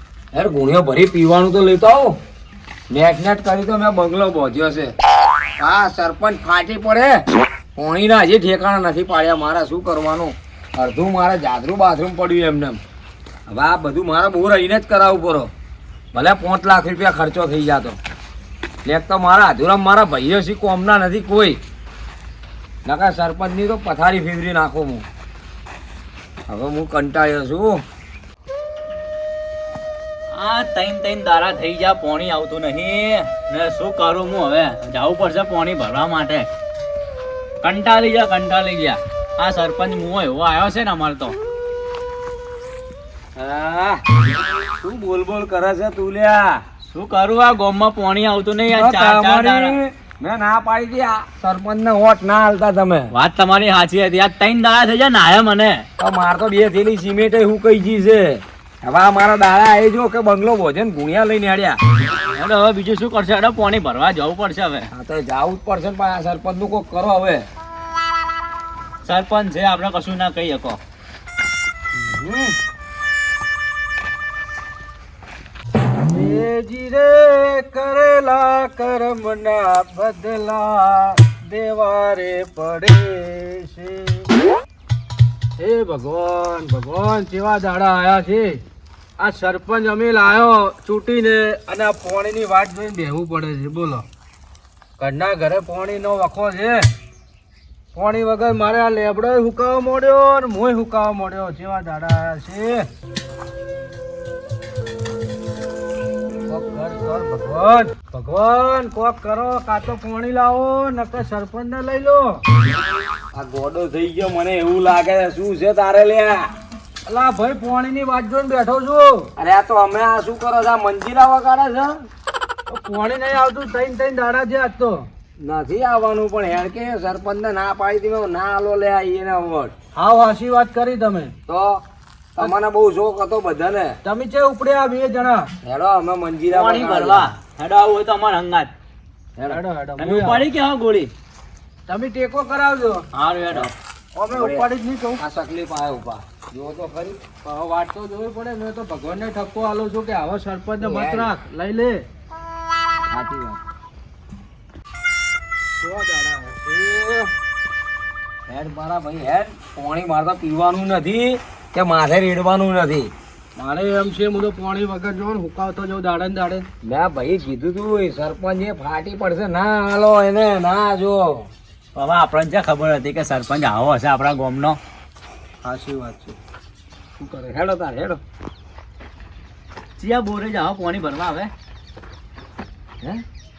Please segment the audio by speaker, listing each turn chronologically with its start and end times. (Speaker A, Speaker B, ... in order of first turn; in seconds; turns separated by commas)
Speaker A: 0.3-2.2, Speaker A: 2.9-5.0, Speaker A: 5.6-12.8, Speaker A: 13.5-15.5, Speaker A: 16.1-18.0, Speaker A: 18.9-21.6, Speaker A: 22.9-25.1, Speaker A: 26.5-27.8, Speaker B: 30.3-36.5, Speaker B: 37.6-41.4, Speaker A: 43.4-44.0, Speaker A: 44.8-46.6, Speaker B: 46.9-49.8, Speaker A: 48.7-53.1, Speaker B: 53.1-55.9, Speaker A: 56.0-61.8, Speaker B: 62.3-64.9, Speaker A: 64.9-67.5, Speaker B: 69.0-70.8, Speaker A: 72.2-72.5, Speaker C: 76.1-84.3, Speaker C: 85.6-88.6, Speaker C: 89.2-94.1, Speaker C: 95.0-96.9, Speaker C: 97.9-102.9, Speaker C: 106.5-112.4, Speaker A: 113.3-116.5, Speaker C: 117.1-119.3, Speaker A: 119.4-122.1, Speaker C: 122.7-125.1, Speaker A: 125.4-129.7, Speaker C: 129.9-131.3, Speaker A: 131.5-131.8, Speaker A: 132.4-134.0, Speaker C: 134.0-135.5, Speaker A: 135.6-137.3, Speaker B: 136.5-138.7, Speaker C: 139.4-140.5, Speaker B: 140.0-141.1, Speaker C: 141.9-143.1, Speaker B: 143.1-143.7, Speaker C: 144.2-145.2, Speaker A: 144.3-144.7, Speaker A: 145.2-147.2, Speaker C: 147.4-152.1, Speaker A: 150.8-151.3, Speaker A: 153.1-153.6, Speaker C: 155.7-157.3, Speaker A: 158.5-163.1, Speaker C: 163.6-166.7, Speaker A: 166.8-171.5, Speaker B: 171.9-174.8, Speaker C: 175.6-176.4, Speaker A: 177.2-178.2, Speaker B: 180.0-181.5